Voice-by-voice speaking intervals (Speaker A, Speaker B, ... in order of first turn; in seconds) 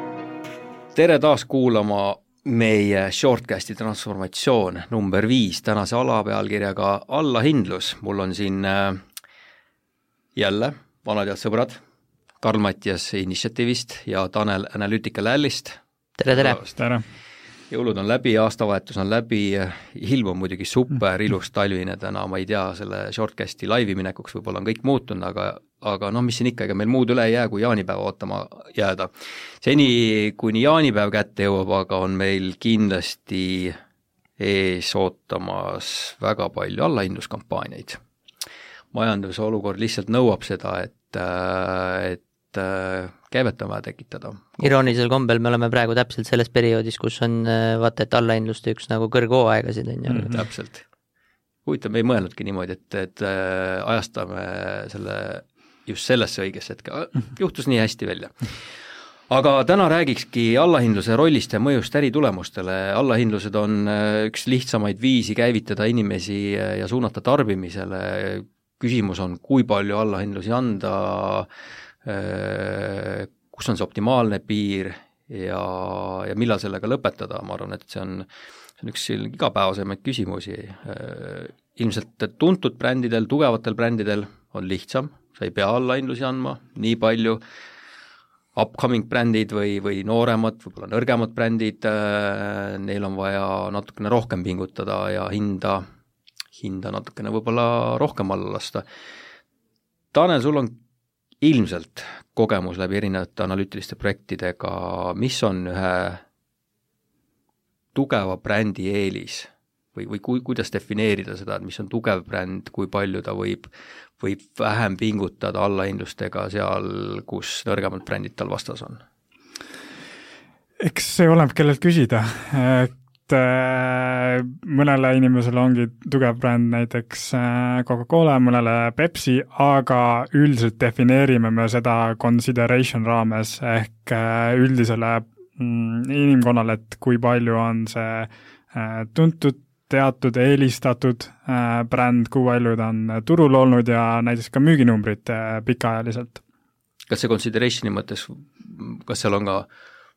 Speaker A: 0.9-9.0, 10.4-11.8, 12.4-15.8, 16.3-16.8, 17.7-33.8, 34.4-38.0, 38.9-44.8, 50.3-50.8, 51.7-58.5, 59.3-71.5, 72.0-78.3, 78.8-87.4, 88.5-95.8, 96.5-98.8, 100.1-100.8, 101.4-106.2, 107.9-113.7, 114.2-119.0, 147.1-149.7
Speaker B: 16.2-16.6, 44.6-50.4
Speaker C: 16.8-17.0, 120.8-146.4